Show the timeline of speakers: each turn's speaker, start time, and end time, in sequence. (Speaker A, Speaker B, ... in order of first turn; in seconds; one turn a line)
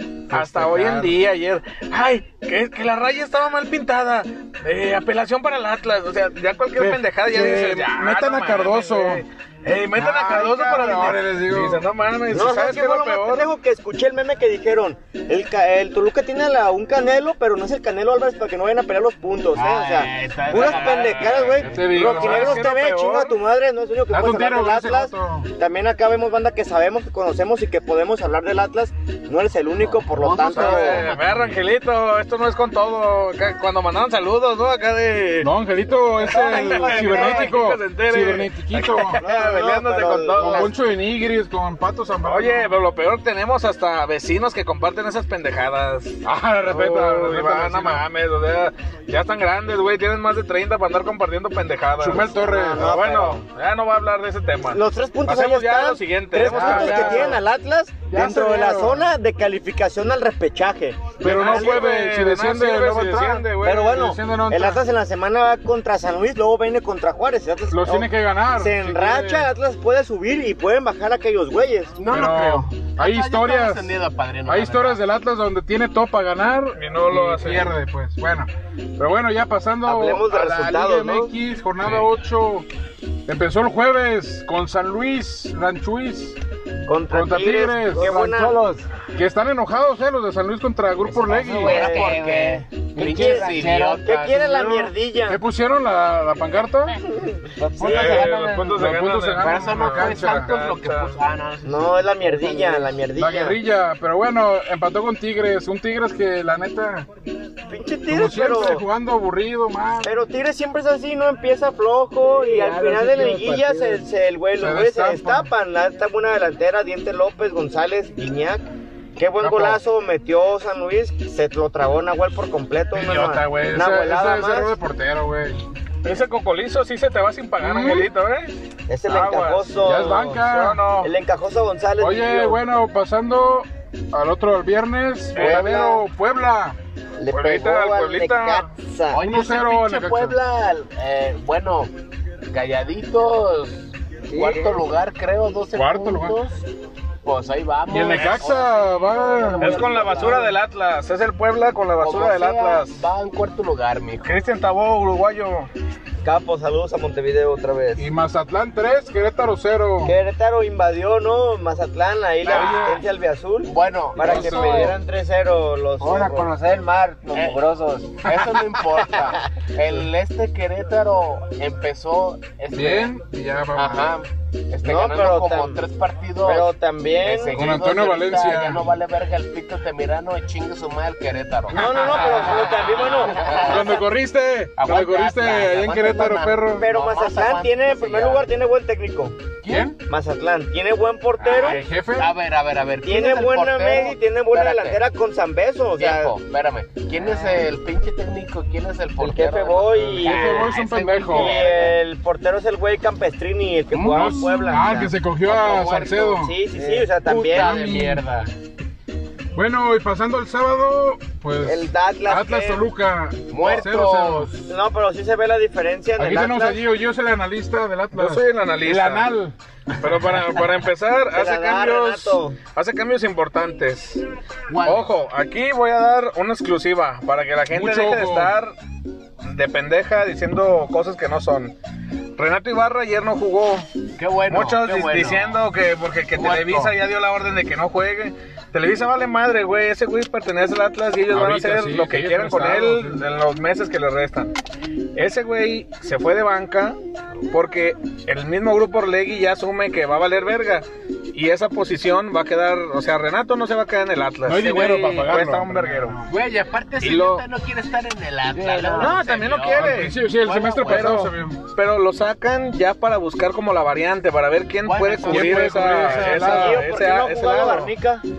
Speaker A: 0.3-13.5
Speaker B: 0.3-1.2
Speaker B: 6.8-9.2
Speaker B: 10.0-11.8
Speaker C: 12.3-31.1
Speaker D: 19.6-21.9
Speaker A: 20.5-23.4
Speaker B: 21.6-22.7
Speaker B: 24.1-25.5
Speaker D: 29.8-31.2
Speaker A: 30.5-35.5
Speaker B: 35.4-39.2
Speaker C: 36.2-37.5
Speaker A: 36.2-40.7
Speaker C: 39.2-40.7
Speaker B: 40.3-42.8
Speaker A: 42.2-57.4
Speaker B: 46.2-48.1
Speaker B: 52.0-52.9
Speaker C: 52.1-53.4
Speaker C: 54.7-61.9
Speaker B: 56.4-57.4
Speaker B: 58.1-59.1
Speaker A: 61.2-64.1
Speaker B: 61.2-64.8
Speaker C: 63.6-72.0
Speaker B: 67.7-69.5
Speaker D: 72.0-75.0
Speaker B: 72.1-82.7
Speaker A: 76.8-77.7
Speaker C: 79.8-81.3
Speaker B: 83.3-86.4
Speaker C: 86.9-88.6
Speaker B: 87.1-88.1
Speaker E: 88.0-88.8
Speaker B: 89.1-91.9
Speaker E: 91.2-94.8
Speaker D: 91.3-94.8
Speaker C: 91.6-92.3
Speaker C: 93.0-95.4
Speaker B: 95.3-97.0
Speaker E: 97.6-98.5
Speaker B: 97.8-100.6
Speaker A: 97.8-101.2
Speaker D: 98.0-98.2
Speaker D: 99.4-102.7
Speaker C: 101.7-103.6
Speaker E: 102.2-102.9
Speaker B: 103.2-107.1
Speaker C: 107.7-108.8
Speaker B: 108.1-110.2
Speaker C: 110.0-124.7
Speaker E: 112.2-114.1
Speaker B: 114.6-115.5
Speaker B: 119.4-119.8
Speaker B: 122.9-125.7
Speaker A: 126.0-128.5
Speaker B: 127.6-128.1
Speaker C: 128.9-130.4
Speaker A: 129.1-131.1
Speaker B: 129.8-130.8
Speaker C: 131.0-132.6
Speaker B: 132.0-136.8
Speaker A: 135.3-135.7
Speaker C: 135.4-136.0
Speaker C: 137.2-139.3
Speaker A: 137.3-138.7
Speaker D: 139.1-141.9
Speaker B: 139.2-140.4
Speaker D: 142.5-146.6
Speaker E: 144.3-144.7
Speaker C: 144.3-144.8
Speaker B: 145.7-146.4
Speaker D: 147.2-150.6
Speaker B: 147.9-149.9
Speaker A: 149.6-153.0
Speaker D: 152.0-154.4
Speaker A: 154.2-155.7
Speaker C: 156.2-158.1
Speaker B: 158.0-160.2
Speaker C: 160.0-166.5
Speaker B: 162.5-163.1
Speaker D: 162.5-163.0
Speaker D: 163.7-164.9
Speaker B: 164.2-165.0
Speaker E: 164.4-164.9
Speaker E: 166.0-168.2
Speaker D: 167.3-167.6
Speaker D: 168.2-173.2
Speaker B: 168.2-169.0
Speaker B: 172.7-174.2
Speaker D: 173.7-184.0
Speaker C: 174.8-175.8
Speaker C: 176.4-177.7
Speaker B: 177.5-178.9
Speaker C: 181.7-184.0
Speaker B: 183.5-186.9
Speaker D: 184.8-188.5
Speaker C: 186.7-189.5
Speaker D: 189.6-190.0
Speaker B: 189.7-189.9
Speaker C: 190.1-191.8
Speaker D: 191.4-195.0
Speaker B: 191.5-192.3
Speaker C: 193.0-196.3
Speaker D: 196.0-201.9
Speaker E: 197.2-197.6
Speaker C: 199.2-200.8
Speaker B: 200.2-201.7
Speaker C: 201.3-207.8
Speaker D: 203.9-204.4
Speaker B: 204.0-206.6
Speaker E: 206.7-207.6
Speaker D: 207.3-208.5
Speaker B: 207.5-208.2
Speaker B: 209.6-214.7
Speaker C: 211.6-212.8
Speaker D: 213.5-214.6
Speaker C: 214.7-216.8
Speaker B: 216.2-219.6
Speaker A: 218.1-219.3
Speaker A: 220.0-224.2
Speaker C: 221.3-222.6
Speaker D: 224.7-225.1
Speaker A: 224.8-228.7
Speaker B: 227.7-228.5
Speaker A: 229.4-231.8
Speaker A: 232.4-233.9
Speaker D: 234.2-235.6
Speaker A: 234.5-244.5
Speaker D: 236.3-236.9
Speaker B: 241.3-243.2
Speaker A: 245.2-247.0
Speaker A: 247.5-256.2
Speaker B: 254.5-256.3
Speaker D: 256.3-261.3
Speaker A: 257.0-257.4
Speaker E: 258.5-259.2
Speaker A: 259.0-260.2
Speaker B: 259.8-261.6
Speaker A: 260.8-267.9
Speaker D: 264.8-266.1
Speaker B: 265.2-266.8
Speaker C: 266.1-268.2